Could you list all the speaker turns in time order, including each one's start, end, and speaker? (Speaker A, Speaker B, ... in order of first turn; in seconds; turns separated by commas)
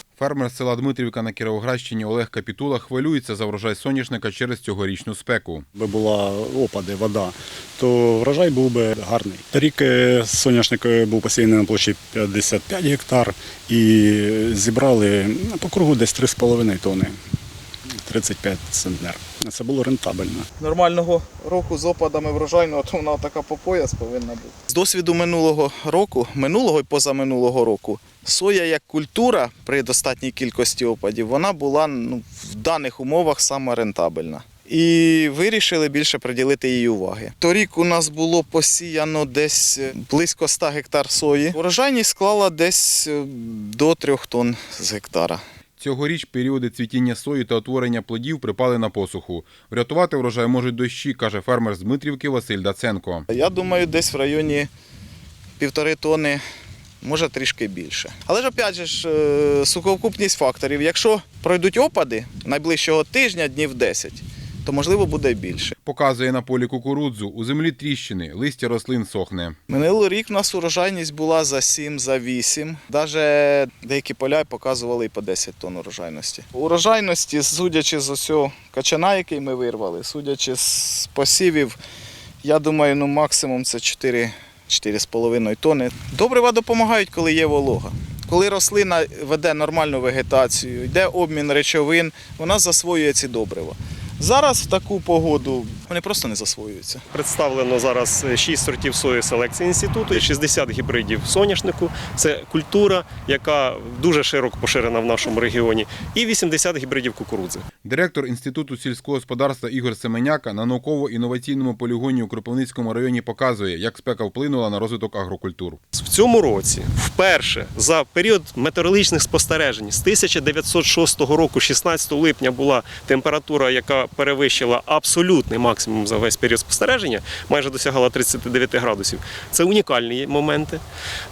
Speaker A: 0.2-5.7, Speaker B: 5.8-17.2, Speaker B: 17.9-20.5, Speaker C: 20.6-45.4, Speaker A: 45.8-53.2, Speaker C: 53.3-54.7, Speaker C: 55.6-56.4, Speaker C: 57.0-65.8, Speaker A: 65.9-69.6, Speaker C: 69.7-81.8, Speaker C: 82.4-97.0, Speaker D: 97.1-107.7, Speaker A: 107.8-115.8, Speaker D: 115.9-130.8